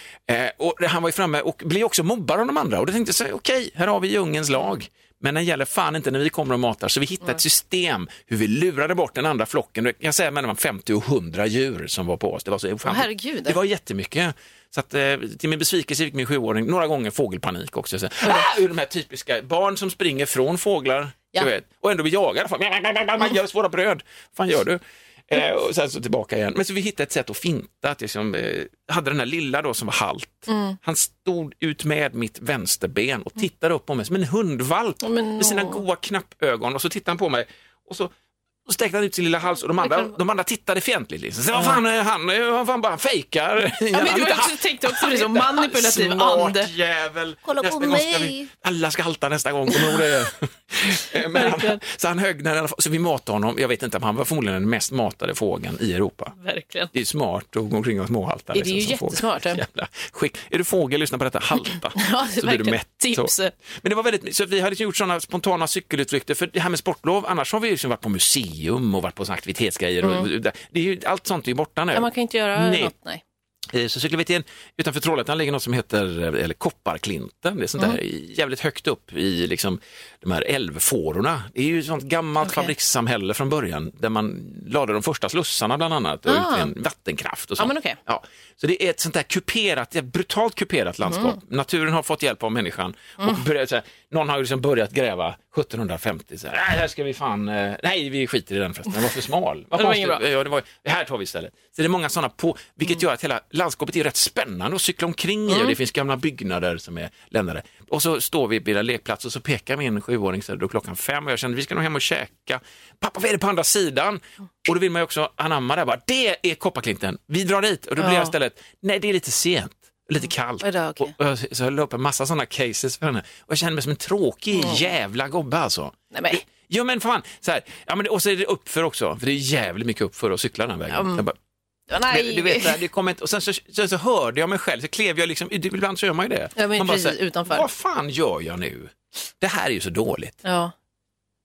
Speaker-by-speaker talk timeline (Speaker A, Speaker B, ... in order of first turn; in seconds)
Speaker A: 0.3-38.1, 38.6-56.4, 56.9-72.9, 73.7-131.3, 132.1-140.4
Speaker B: 12.8-13.6, 30.5-30.8, 35.0-35.8, 39.8-40.1, 43.9-46.7, 47.9-48.2, 51.3-51.8, 56.4-56.9, 58.5-59.6, 62.0-63.5, 70.0-70.3, 71.9-73.2, 82.4-82.7, 86.2-86.7, 87.6-88.0, 91.0-91.4, 99.8-100.2, 105.5-105.8, 118.0-118.3, 120.6-121.1, 124.5-124.8, 126.1-126.4, 130.9-131.2, 131.9-132.8, 136.6-137.7, 140.4-140.7